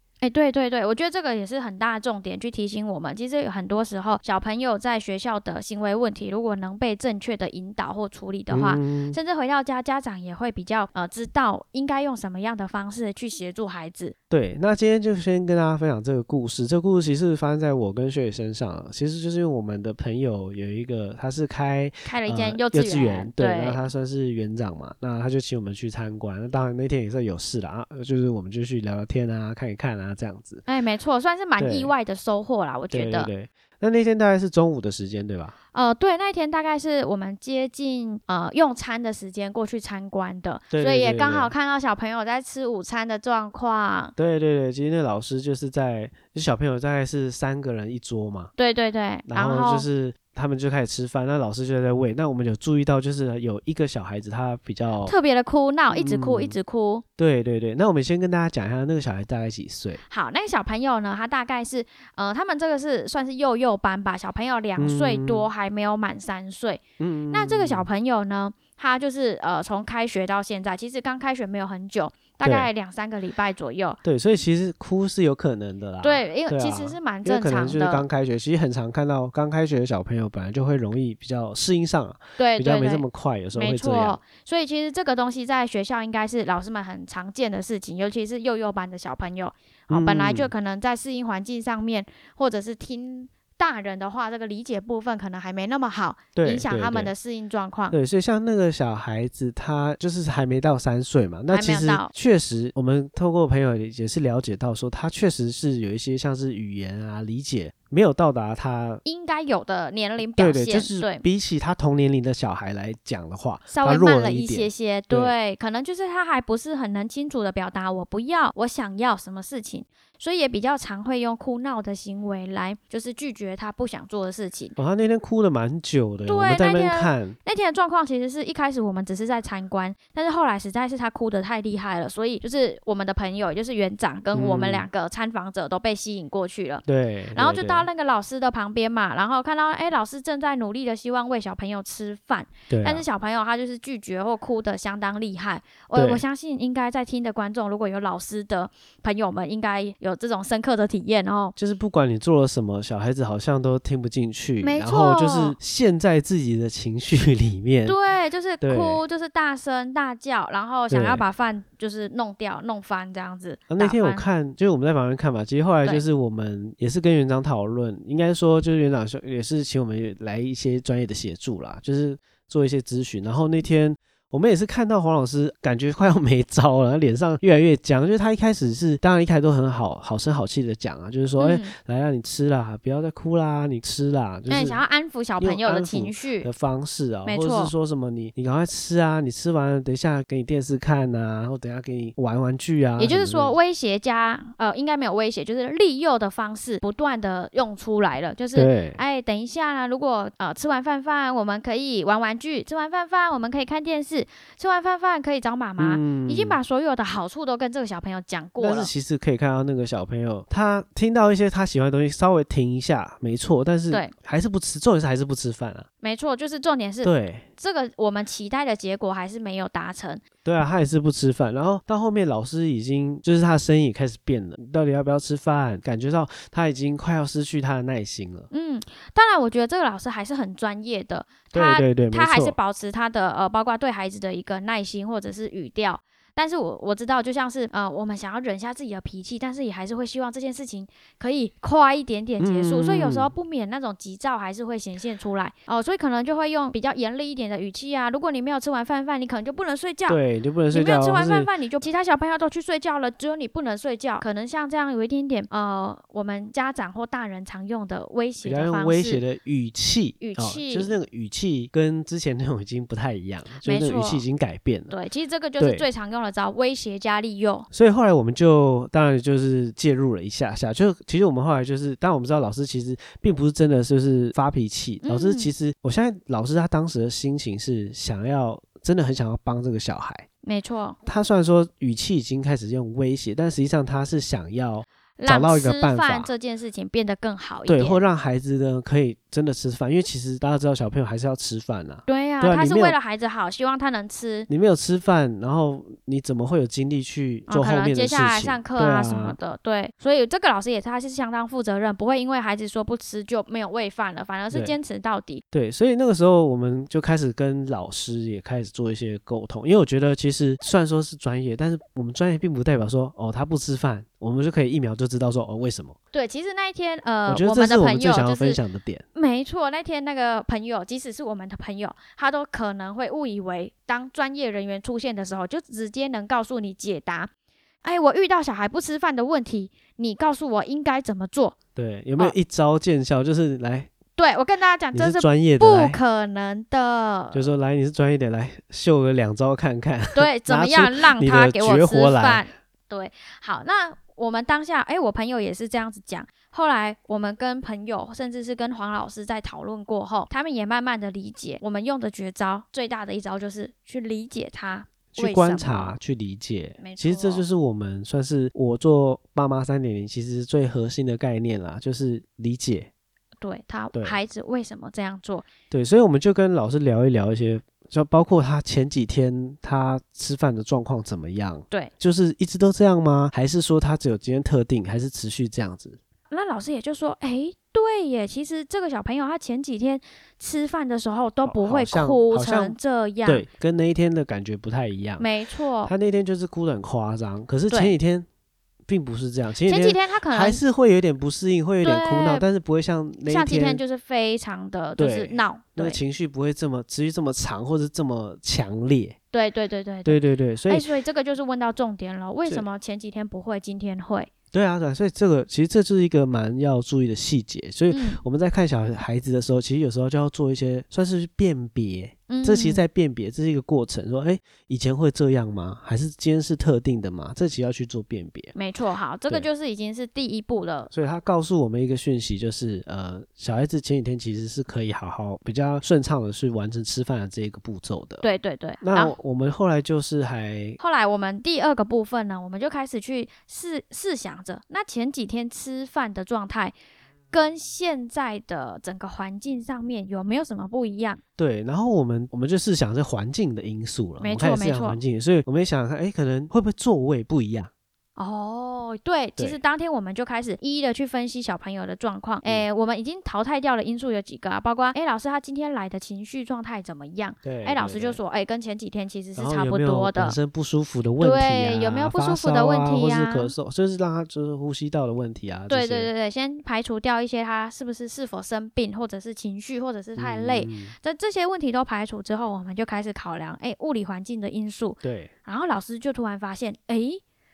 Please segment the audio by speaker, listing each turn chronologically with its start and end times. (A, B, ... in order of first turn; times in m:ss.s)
0:00.2-0:14.2 A
0:08.5-0:09.2 B
0:14.3-0:30.6 B
0:22.0-0:23.8 A
0:30.7-0:33.3 A
0:31.6-0:31.9 B
0:32.9-0:35.6 B
0:35.7-0:44.2 A
0:40.7-0:41.5 B
0:44.2-0:48.5 B
0:48.6-0:49.9 A
0:49.3-0:55.2 B
0:55.0-0:57.0 A
0:55.9-0:56.6 B
0:57.2-1:00.0 B
1:00.1-1:14.0 A
1:04.8-1:05.5 B
1:07.0-1:07.9 B
1:12.4-1:12.7 B
1:14.0-1:24.2 B
1:16.0-1:18.1 A
1:22.4-1:38.0 A
1:29.9-1:30.5 B
1:36.4-1:37.1 B
1:37.9-1:49.0 B
1:41.5-1:42.1 A
1:49.0-1:51.2 A
1:50.4-1:55.3 B
1:53.7-2:04.8 A
2:04.8-2:07.4 B
2:06.3-2:16.8 A
2:14.3-2:14.9 B
2:16.9-2:17.9 B
2:17.4-2:31.6 A
2:22.7-2:23.0 B
2:25.9-2:26.2 B
2:31.6-2:38.0 B
2:34.6-2:35.6 A
2:37.9-2:44.2 A
2:38.6-2:39.0 B
2:40.9-2:41.2 B
2:43.7-3:04.8 B
3:01.4-3:01.8 A
3:04.5-3:06.5 A
3:05.4-3:13.6 B
3:07.3-3:07.7 A
3:13.0-3:28.9 A
3:18.6-3:19.0 B
3:25.8-3:26.6 B
3:28.6-3:35.9 B
3:36.0-3:40.2 A
3:37.0-3:37.5 B
3:40.4-3:48.5 B
3:48.5-4:10.2 A
3:51.5-3:52.6 B
4:02.4-4:03.3 B
4:10.1-4:11.5 B
4:10.7-4:19.2 A
4:18.4-4:24.9 B
4:20.2-4:20.9 A
4:23.6-4:24.2 A
4:24.9-4:27.7 A
4:25.6-4:25.9 B
4:27.7-4:40.3 B
4:35.0-4:35.5 A
4:40.4-4:41.0 A
4:41.0-4:46.3 B
4:45.2-4:48.0 A
4:47.7-4:53.0 B
4:52.1-4:54.5 A
4:54.5-4:59.4 B
4:57.5-5:05.4 A
5:04.5-5:04.8 B
5:05.5-5:16.0 B
5:16.1-5:18.6 A
5:17.3-5:19.0 B
5:19.2-5:27.3 A
5:27.8-5:31.6 A
5:31.8-5:33.9 B
5:34.2-5:37.5 A
5:34.9-5:36.0 B
5:37.3-5:42.4 B
5:40.2-5:56.0 A
5:55.1-6:02.9 B
5:56.8-5:57.4 A
6:03.4-6:05.5 A
6:05.7-6:16.0 B
6:16.3-6:23.5 A
6:21.4-6:25.3 B
6:25.2-6:25.9 A
6:25.8-6:28.3 B
6:27.7-6:28.0 A
6:28.9-6:33.8 B
6:29.7-6:30.6 A
6:31.8-6:32.4 A
6:33.3-6:36.0 A
6:35.0-6:39.2 B
6:39.3-6:44.3 A
6:40.0-6:40.9 B
6:44.5-6:58.5 B
6:47.9-6:48.2 A
6:52.3-6:52.8 A
6:58.6-7:00.9 A
7:00.9-7:08.2 B
7:08.2-7:09.2 A
7:08.8-7:10.8 B
7:10.8-7:16.8 A
7:17.3-7:21.2 A
7:21.4-7:27.7 B
7:24.2-7:25.0 A
7:28.2-7:40.4 A
7:37.4-7:38.2 B
7:39.4-7:46.1 B
7:41.2-7:43.5 A
7:45.7-7:57.2 A
7:50.2-7:51.0 B
7:55.0-7:55.3 B